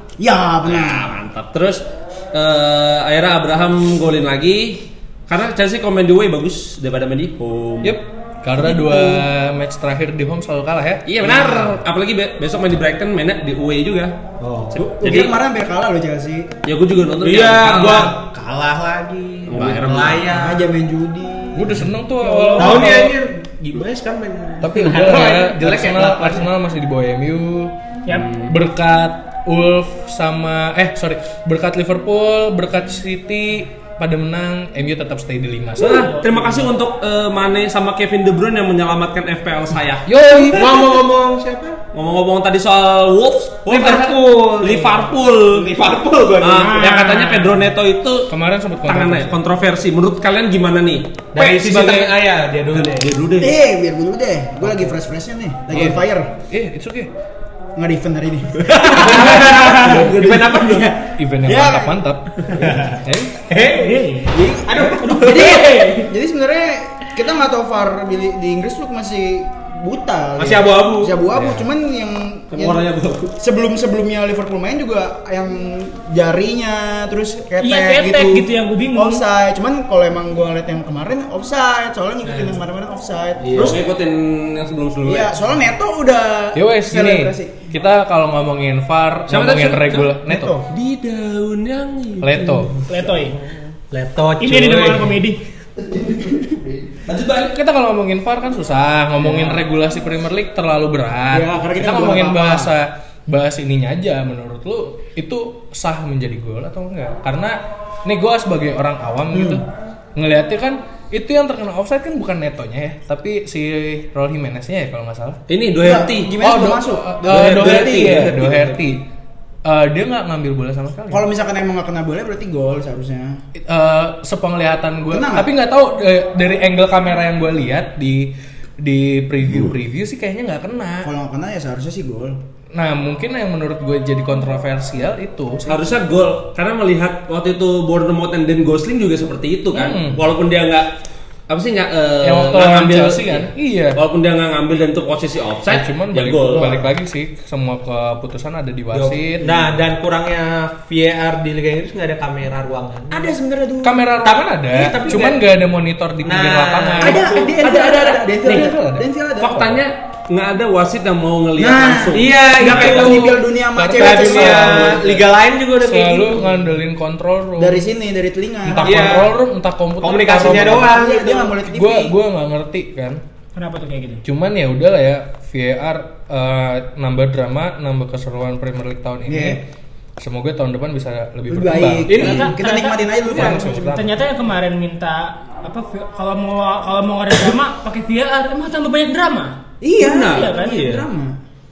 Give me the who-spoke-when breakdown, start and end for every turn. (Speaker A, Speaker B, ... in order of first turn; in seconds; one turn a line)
Speaker A: 0.2-1.1
Speaker B: 0.7-8.0
Speaker C: 7.8-11.6
Speaker B: 11.1-14.1
Speaker D: 14.4-14.9
Speaker B: 14.7-15.4
Speaker A: 14.8-16.5
Speaker B: 16.6-18.1
Speaker D: 17.2-20.6
Speaker B: 19.5-20.3
Speaker A: 20.3-21.9
Speaker C: 21.6-23.1
Speaker E: 22.2-22.9
Speaker D: 22.6-26.5
Speaker C: 24.6-27.7
Speaker E: 28.1-28.3
Speaker B: 28.1-28.5
Speaker C: 28.4-36.1
Speaker B: 35.8-40.7
Speaker E: 35.8-36.7
Speaker C: 40.1-40.8
Speaker D: 40.4-41.8
Speaker B: 41.9-45.8
Speaker D: 43.7-46.9
Speaker B: 46.4-48.3
Speaker E: 46.6-47.6
Speaker C: 48.3-49.4
Speaker B: 48.9-53.5
Speaker D: 51.4-53.1
Speaker A: 53.4-56.3
Speaker C: 55.7-57.1
Speaker A: 57.8-59.2
Speaker B: 58.7-60.9
Speaker D: 58.8-61.1
Speaker E: 59.1-59.9
Speaker C: 61.2-62.5
Speaker A: 61.4-62.0
Speaker D: 62.6-63.0
Speaker C: 63.0-63.5
Speaker D: 63.5-64.1
Speaker E: 63.6-66.1
Speaker A: 64.3-72.9
Speaker D: 64.7-65.2
Speaker D: 70.4-71.2
Speaker C: 71.3-71.7
Speaker B: 72.5-73.3
Speaker A: 73.4-83.8
Speaker E: 77.6-79.2
Speaker B: 83.5-85.3
Speaker A: 85.0-87.6
Speaker C: 86.5-90.6
Speaker B: 89.3-90.2
Speaker A: 90.3-90.7
Speaker B: 90.7-92.8
Speaker C: 92.2-92.7
Speaker E: 92.9-93.4
Speaker D: 93.9-95.2
Speaker E: 94.4-95.4
Speaker B: 95.8-97.5
Speaker C: 97.4-115.4
Speaker A: 101.3-102.7
Speaker A: 109.3-109.6
Speaker B: 115.5-116.4
Speaker A: 115.8-118.2
Speaker C: 116.4-119.0
Speaker B: 117.3-118.8
Speaker C: 119.7-121.2
Speaker A: 121.1-123.4
Speaker C: 123.6-131.1
Speaker A: 125.1-125.5
Speaker A: 131.0-132.4
Speaker C: 132.7-136.0
Speaker B: 135.7-140.9
Speaker C: 139.7-140.2
Speaker B: 141.5-146.8
Speaker C: 142.2-144.0
Speaker C: 145.7-149.7
Speaker D: 148.9-153.3
Speaker A: 153.1-154.1
Speaker C: 153.8-159.1
Speaker D: 154.2-155.5
Speaker D: 156.2-157.4
Speaker A: 157.0-159.8
Speaker B: 159.4-162.8
Speaker A: 161.6-165.2
Speaker D: 162.1-163.3
Speaker C: 162.6-167.8
Speaker D: 163.9-166.6
Speaker A: 167.6-169.2
Speaker C: 168.7-170.9
Speaker D: 168.8-169.4
Speaker D: 170.0-171.6
Speaker A: 170.6-172.1
Speaker C: 171.6-173.2
Speaker E: 173.6-174.2
Speaker C: 174.2-179.6
Speaker A: 179.3-179.6
Speaker C: 180.2-182.4
Speaker A: 181.5-183.9
Speaker D: 182.1-182.5
Speaker E: 182.1-189.6
Speaker C: 183.3-184.2
Speaker A: 189.8-191.4
Speaker B: 190.0-190.8
Speaker E: 190.2-190.8